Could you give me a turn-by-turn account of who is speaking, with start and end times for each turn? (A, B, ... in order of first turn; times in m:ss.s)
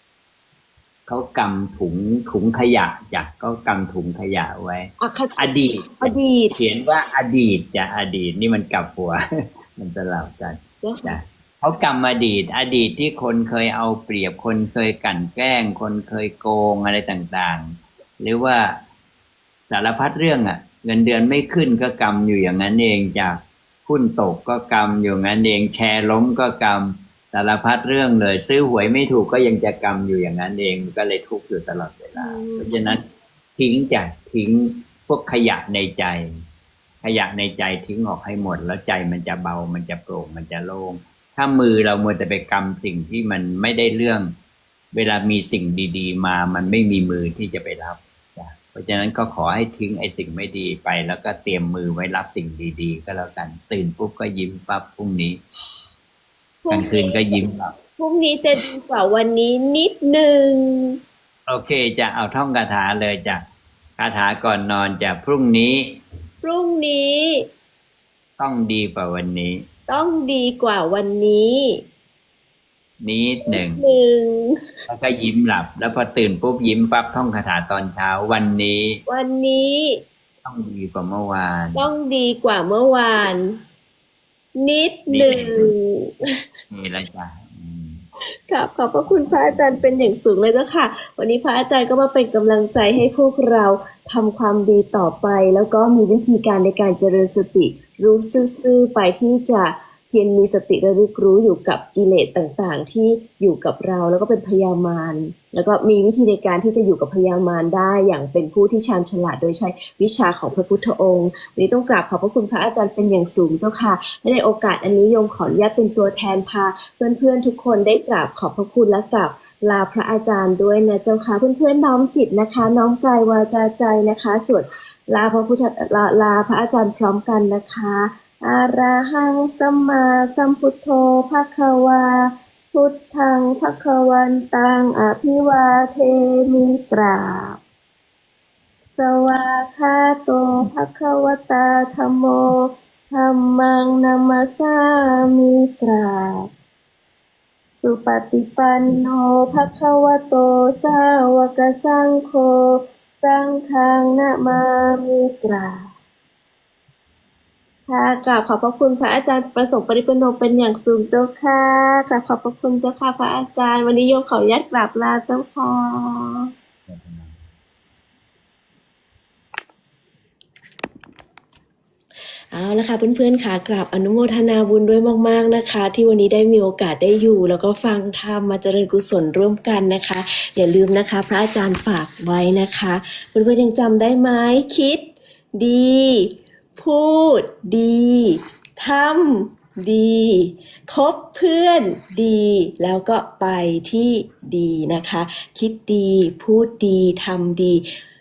0:01.1-0:09.2 A
0:05.0-0:06.6 B
0:09.7-0:18.8 A
0:10.8-0:11.2 B
0:19.7-0:33.0 A
0:32.2-0:32.9 B
0:33.6-0:36.3 A
0:37.0-0:44.3 A
0:44.9-0:55.4 A
0:56.6-0:57.4 B
0:56.7-0:57.7 A
0:58.0-1:01.0 B
1:01.5-1:03.4 A
1:04.0-1:06.0 A
1:06.4-1:07.5 B
1:08.4-1:09.6 A
1:09.9-1:11.8 B
1:13.0-1:13.8 A
1:13.5-1:14.6 B
1:14.9-1:19.0 A
1:19.0-1:20.0 B
1:20.4-1:21.9 A
1:21.7-1:23.6 B
1:24.5-1:26.3 B
1:25.1-1:25.7 A
1:26.7-1:28.0 A
1:28.5-2:17.6 B
1:29.1-1:29.9 A
2:19.0-2:26.5 B
2:27.8-2:35.9 B
2:37.9-2:46.5 B
2:46.9-2:47.4 A
2:52.5-3:17.8 B